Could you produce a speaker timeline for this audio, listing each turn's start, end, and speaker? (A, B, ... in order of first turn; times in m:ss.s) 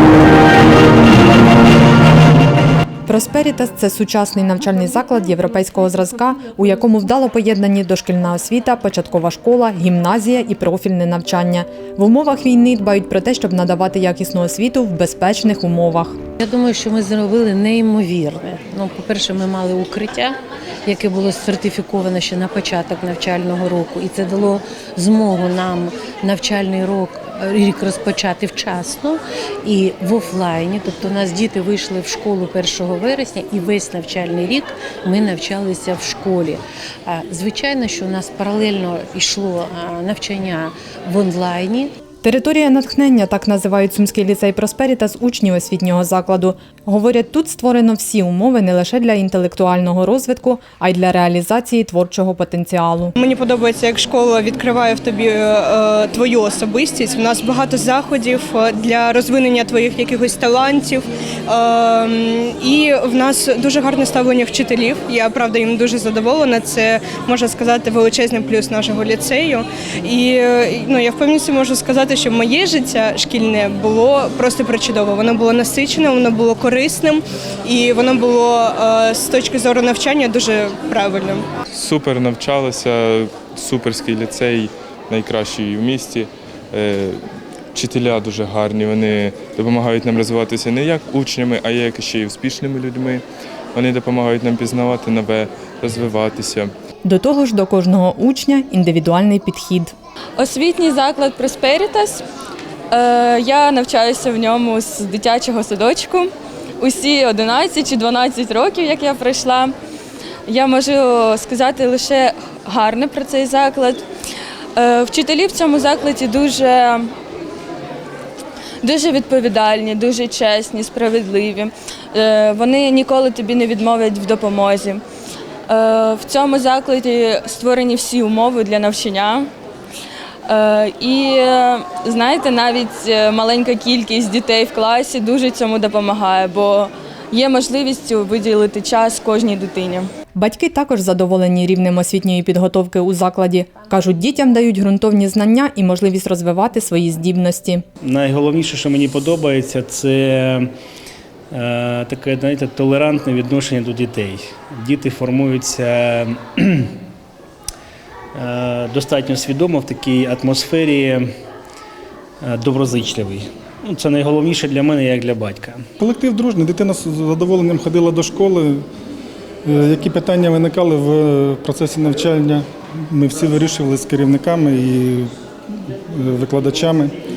0:03.0-0:16.2 A
0:16.4-0:41.9 B
0:42.2-0:53.1 A
0:53.2-1:21.4 C
1:21.7-1:27.2 D
1:27.7-1:33.2 D
1:33.7-1:36.7 D
1:37.0-1:39.9 A
1:40.4-1:42.2 E
1:42.9-1:46.3 E
1:46.8-1:49.7 E
1:50.5-1:54.0 E
1:54.8-1:57.1 E
1:58.8-2:05.0 E
2:05.7-2:09.5 E
2:10.5-2:20.1 E
2:20.3-2:27.8 A
2:28.0-2:30.6 F
2:31.5-2:36.6 F
2:38.4-2:41.2 F
2:42.4-2:45.8 F
2:46.0-2:48.8 G
2:49.6-2:55.3 G
2:56.1-2:57.1 G